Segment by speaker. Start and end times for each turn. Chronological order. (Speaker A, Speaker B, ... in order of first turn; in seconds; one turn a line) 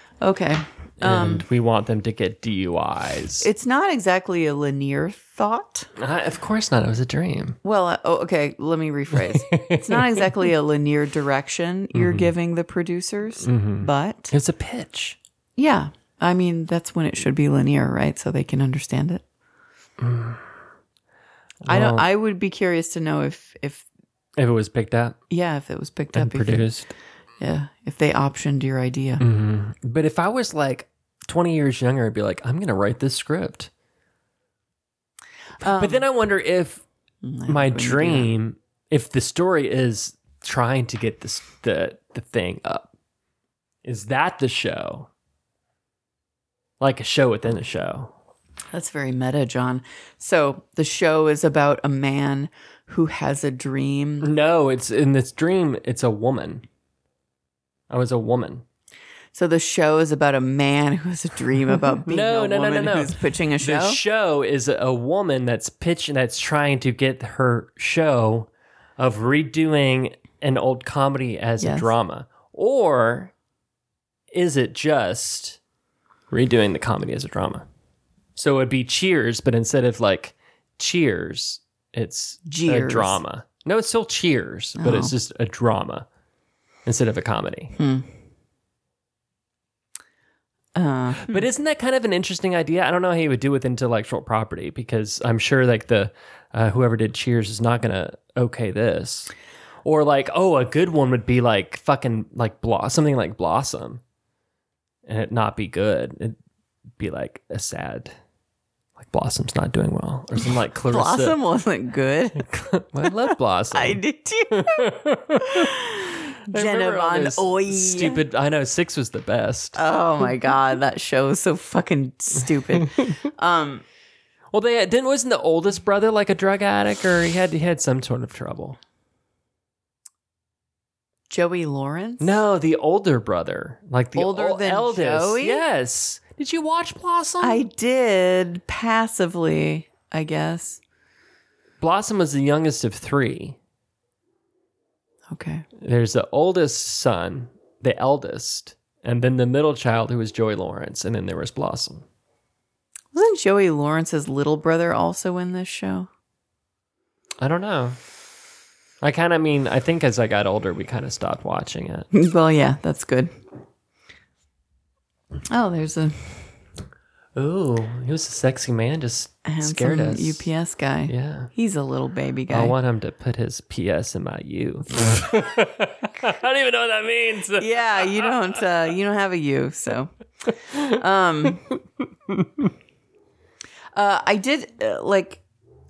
Speaker A: 0.2-1.4
Speaker B: 1.0-3.5
Speaker A: 3.4-5.9
Speaker B: 6.0-7.6
Speaker A: 7.6-14.3
Speaker B: 9.1-10.5
Speaker B: 11.9-12.3
Speaker B: 13.4-15.2
Speaker A: 15.6-19.2
Speaker B: 20.0-20.4
Speaker B: 21.6-22.1
Speaker A: 21.7-23.8
Speaker B: 24.4-25.2
Speaker A: 25.3-26.7
Speaker B: 26.1-26.9
Speaker A: 27.4-29.2
Speaker B: 29.2-33.7
Speaker A: 35.6-36.0
Speaker B: 35.6-36.8
Speaker A: 37.2-38.3
Speaker B: 37.5-42.9
Speaker B: 43.8-45.1
Speaker B: 46.8-48.1
Speaker A: 48.7-54.3
Speaker B: 54.2-56.6
Speaker B: 57.9-58.6
Speaker A: 59.3-64.0
Speaker B: 62.0-73.3
Speaker A: 71.6-71.9
Speaker B: 74.3-75.6
Speaker B: 76.3-77.7
Speaker B: 78.3-86.1
Speaker A: 82.5-83.2
Speaker A: 84.8-85.1
Speaker B: 86.8-87.7
Speaker A: 87.8-88.1
Speaker A: 90.7-91.4
Speaker B: 91.2-99.3
Speaker B: 99.8-104.0
Speaker B: 105.0-106.4
Speaker B: 107.0-108.1
Speaker B: 109.0-111.4
Speaker A: 110.9-112.5
Speaker B: 112.5-115.7
Speaker A: 113.7-114.8
Speaker A: 115.4-118.2
Speaker B: 116.5-119.8
Speaker A: 119.8-123.8
Speaker B: 124.5-128.8
Speaker A: 131.3-132.4
Speaker B: 132.2-137.6
Speaker A: 134.1-135.6
Speaker A: 137.4-140.8
Speaker B: 141.8-143.6
Speaker A: 145.3-145.6
Speaker B: 145.8-152.0
Speaker A: 153.1-156.1
Speaker B: 157.4-158.0
Speaker B: 159.0-162.1
Speaker A: 162.1-163.3
Speaker A: 165.5-166.4
Speaker B: 167.3-170.5
Speaker A: 169.4-172.7
Speaker B: 171.1-171.5
Speaker B: 172.5-178.6
Speaker A: 177.6-180.1
Speaker A: 180.7-181.7
Speaker B: 182.3-182.6
Speaker A: 183.9-185.4